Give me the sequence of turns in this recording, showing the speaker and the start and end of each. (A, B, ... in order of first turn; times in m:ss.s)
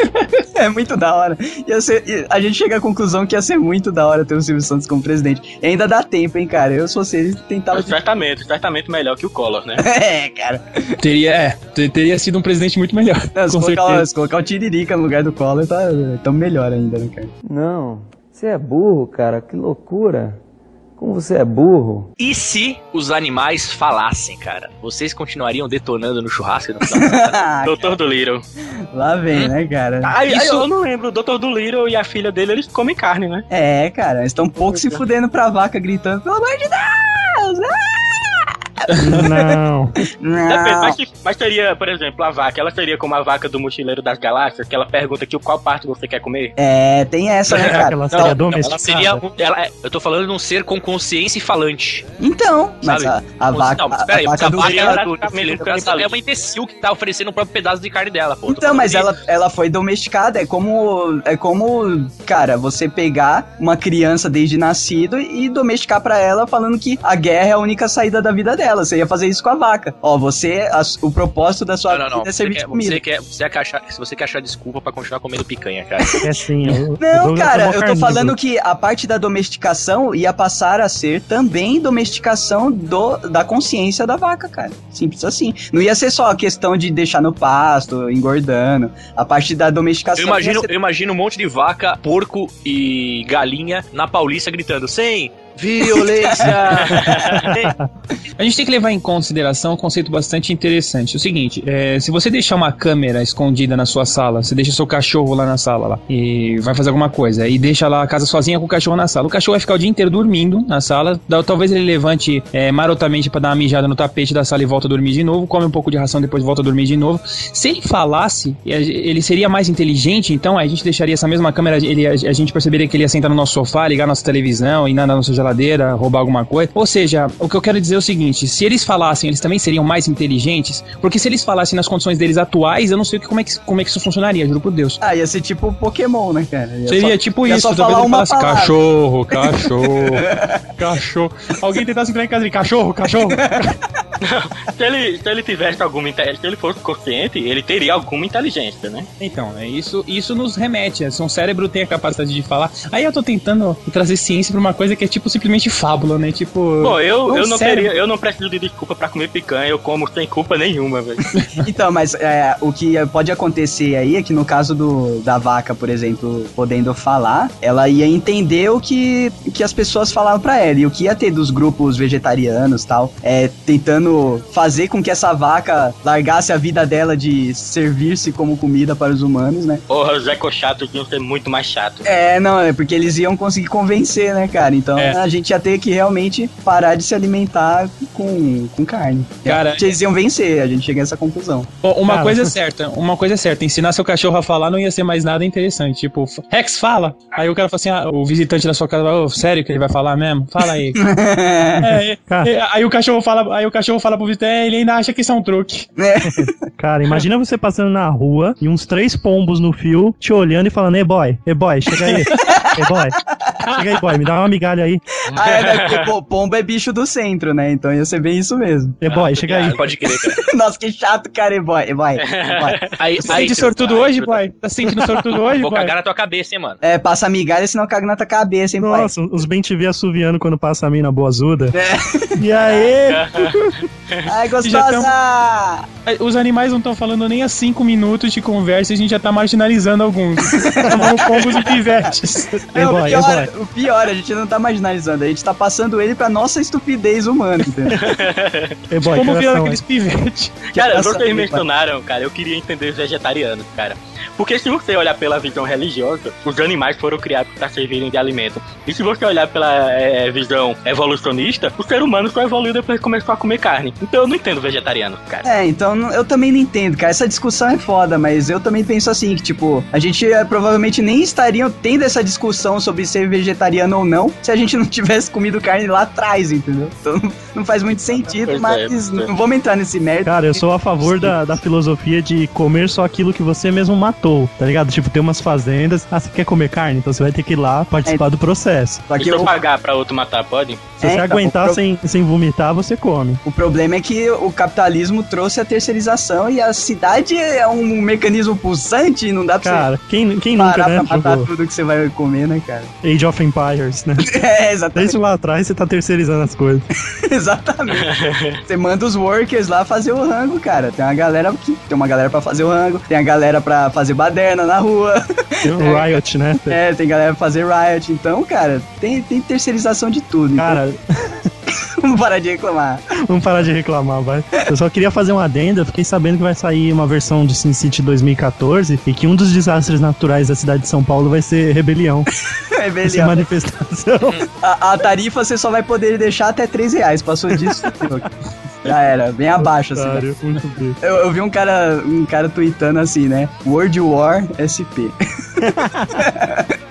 0:00.6-0:07.9 A
0:07.7-0:09.8 B
0:09.8-0:11.0 A
0:11.0-0:14.1 C
0:13.3-0:17.3 A
0:17.4-0:20.4 D
0:21.0-0:22.1 D
0:22.2-0:27.4 E
0:26.9-0:27.9 A
0:27.6-0:28.4 B
0:28.9-0:30.6 A
0:30.0-0:33.4 B
0:33.5-0:39.6 A
0:39.0-0:39.9 F
0:40.2-0:41.0 A
0:40.5-0:46.5 B
0:46.6-0:48.3 A
0:47.5-0:49.2 F
0:48.1-0:52.1 E
0:52.2-0:55.0 A
0:52.8-0:59.2 E
0:54.6-0:56.1 B
0:58.5-1:13.0 A
1:11.9-1:16.3 E
1:16.2-1:18.3 F
1:17.0-1:30.7 A
1:30.2-1:37.7 E
1:35.9-1:37.0 A
1:37.0-1:37.3 B
1:37.5-1:37.8 F
1:38.4-2:15.0 C
2:15.0-2:18.7 A
2:16.9-2:23.7 C
2:19.3-2:20.6 A
2:23.2-2:23.6 A
2:24.2-2:29.1 B
2:29.2-2:37.9 C
2:36.8-2:41.2 B
2:41.6-2:59.8 A
2:59.9-3:02.0 B
3:02.0-3:11.7 A
3:09.4-3:09.9 C
3:11.8-3:21.0 C
3:12.1-3:12.5 F
3:21.0-3:22.0 A
3:21.8-3:25.9 C
3:26.0-3:26.7 A
3:26.4-3:33.2 F
3:31.9-3:32.4 C
3:32.3-3:32.7 A
3:33.7-3:34.0 C
3:33.7-3:35.0 F
3:35.3-3:39.0 A
3:35.5-3:36.1 B
3:39.0-3:39.8 F
3:39.0-3:40.4 E
3:40.4-3:42.8 A
3:42.2-3:42.9 B
3:43.0-3:46.8 E
3:43.3-3:45.9 C
3:46.8-3:49.1 A
3:48.8-3:51.7 F
3:51.8-3:52.4 A
3:52.4-3:53.7 F
3:53.0-3:54.2 B
3:54.2-3:55.8 A
3:54.6-3:55.1 C
3:56.0-4:02.5 C
4:00.5-4:01.5 A
4:00.9-4:01.1 F
4:02.5-4:03.5 F
4:02.7-4:07.9 A
4:07.9-4:08.7 B
4:08.9-4:09.8 F
4:09.0-4:10.6 C
4:10.7-4:11.6 A
4:10.7-4:25.4 B
4:25.4-4:41.4 A
4:38.4-4:39.3 B
4:40.2-4:49.0 F
4:49.1-4:49.5 A
4:49.2-4:50.9 B
4:51.0-4:51.8 A
4:51.0-4:53.4 F
4:53.4-4:59.9 A
4:59.6-5:01.5 F
5:00.6-5:02.9 A
5:03.0-5:04.4 F
5:04.3-5:05.2 A
5:04.9-5:06.9 F
5:07.3-5:08.1 A
5:07.9-5:08.6 B
5:08.6-5:16.0 A
5:15.6-5:16.8 F
5:16.7-5:20.8 A
5:20.6-5:21.5 F
5:22.0-5:23.0 A
5:23.2-5:32.3 F
5:32.7-5:33.4 A
5:33.0-5:34.4 F
5:34.6-5:38.3 A
5:38.8-5:40.3 A
5:39.9-5:41.0 F
5:41.0-5:46.7 A
5:45.6-5:46.3 F